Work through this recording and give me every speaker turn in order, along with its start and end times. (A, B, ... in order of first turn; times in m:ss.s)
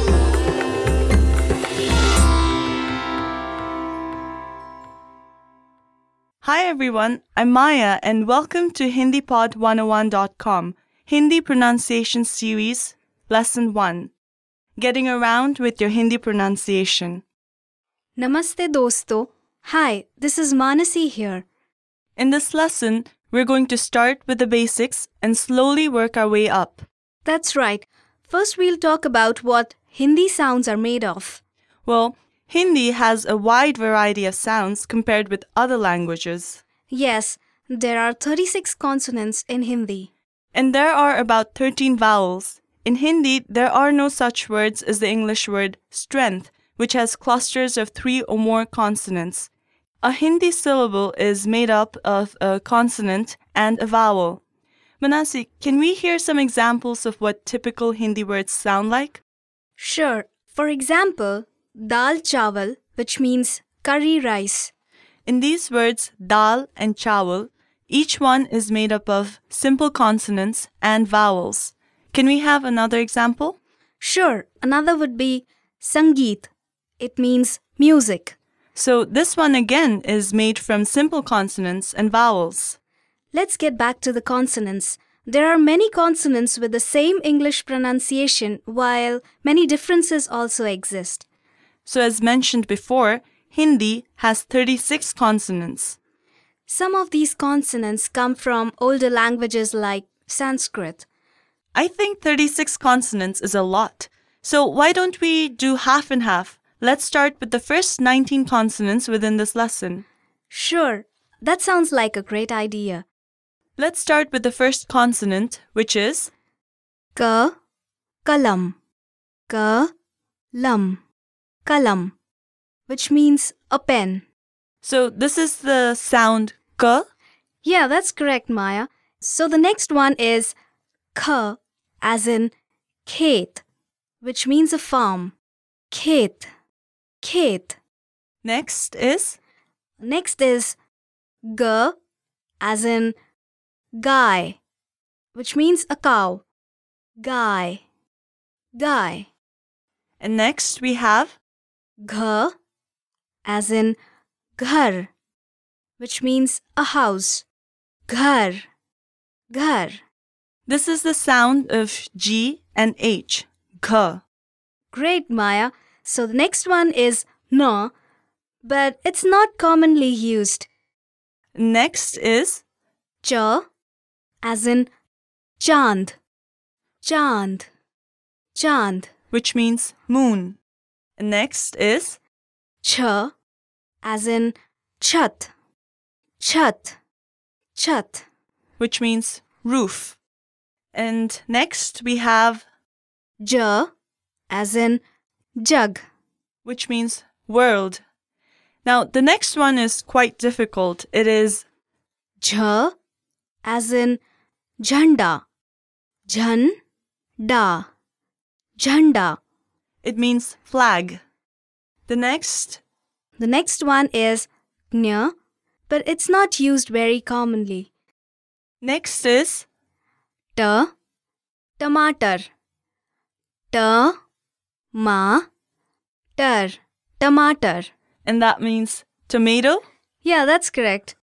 0:06.4-0:14.1 A
0:14.8-0:17.2 A
0:18.2-0:21.4 B
0:22.2-0:26.8 A
0:27.2-0:31.4 B
0:31.8-0:36.6 A
0:36.9-0:40.1 B
0:40.5-0:49.5 A
0:50.0-0:54.4 A
0:55.0-0:59.2 A
0:59.8-1:04.7 B
1:05.2-1:13.6 A
1:14.0-1:18.4 B
1:18.7-1:22.8 A
1:23.3-1:31.2 B
1:31.8-1:36.0 A
1:36.7-1:41.0 B
1:41.7-1:50.0 A
1:50.5-1:53.0 B
1:53.8-1:56.3 A
1:57.1-1:57.5 B
1:58.2-1:58.8 B
1:59.5-1:59.9 B
2:00.5-2:01.0 B
2:01.6-2:02.1 B
2:02.9-2:04.2 B
2:04.8-2:07.1 A
2:07.6-2:10.5 B
2:11.1-2:12.5 B
2:13.0-2:13.6 B
2:14.2-2:15.3 B
2:15.9-2:16.5 B
2:17.2-2:17.8 B
2:18.4-2:19.4 A
2:20.0-2:20.8 B
2:21.4-2:21.9 B
2:22.6-2:23.1 B
2:24.0-2:24.6 B
2:25.3-2:26.4 B
2:27.2-2:27.8 B
2:28.7-2:29.3 B
2:30.2-2:31.4 A
2:32.0-2:32.5 B
2:33.4-2:34.0 B
2:34.6-2:35.1 B
2:36.0-2:37.4 B
2:38.1-2:38.6 B
2:39.5-2:40.0 B
2:40.7-2:44.2 A
2:44.9-2:47.9 B
2:48.6-2:50.7 B
2:51.5-2:52.6 A
2:53.2-2:53.6 B
2:54.4-2:54.9 B
2:55.6-2:56.2 B
2:57.0-2:57.7 B
2:58.5-2:59.1 B
2:59.3-3:00.6 A
3:01.2-3:02.2 A
3:02.8-3:03.3 B
3:04.0-3:05.5 B
3:06.4-3:07.0 B
3:07.7-3:08.2 B
3:08.8-3:10.2 A
3:10.9-3:12.6 A
3:13.4-3:13.9 B
3:14.5-3:15.0 B
3:15.6-3:16.0 B
3:16.6-3:18.0 A
3:18.8-3:21.6 A
3:22.4-3:22.9 B
3:23.6-3:24.2 B
3:24.8-3:25.4 B
3:26.3-3:26.8 B
3:27.4-3:27.9 B
3:28.8-3:29.4 B
3:30.0-3:31.2 A
3:32.1-3:32.8 A
3:33.4-3:35.3 B
3:35.9-3:37.9 B
3:38.8-3:39.6 A
3:40.6-3:40.9 B
3:41.8-3:42.5 B
3:43.7-3:44.1 B
3:44.9-3:45.4 B
3:46.4-3:47.9 B
3:48.2-3:49.8 A
3:50.2-3:51.2 B